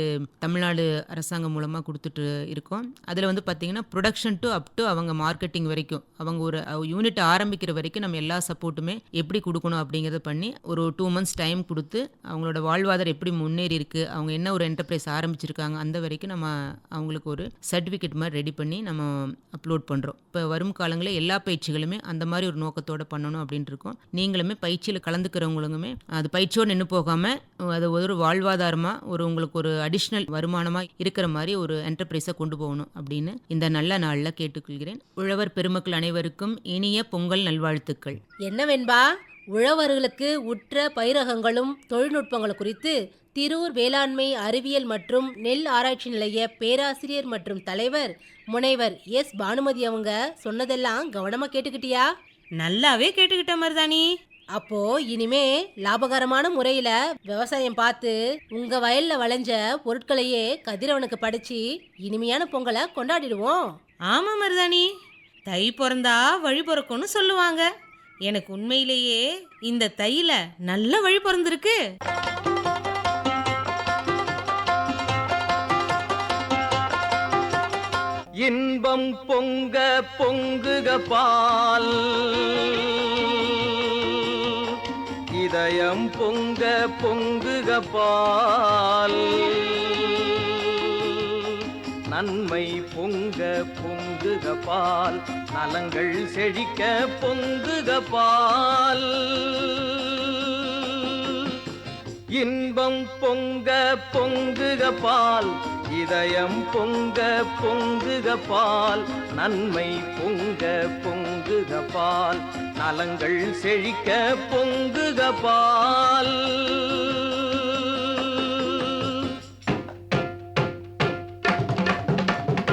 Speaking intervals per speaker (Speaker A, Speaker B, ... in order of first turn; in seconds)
Speaker A: 0.4-38.2
Speaker B: 38.5-39.0, 39.6-52.1, 54.6-63.6
Speaker C: 52.6-54.1, 64.1-64.9, 65.5-67.7, 68.3-71.8
Speaker D: 78.4-84.8, 85.3-101.6, 102.4-119.3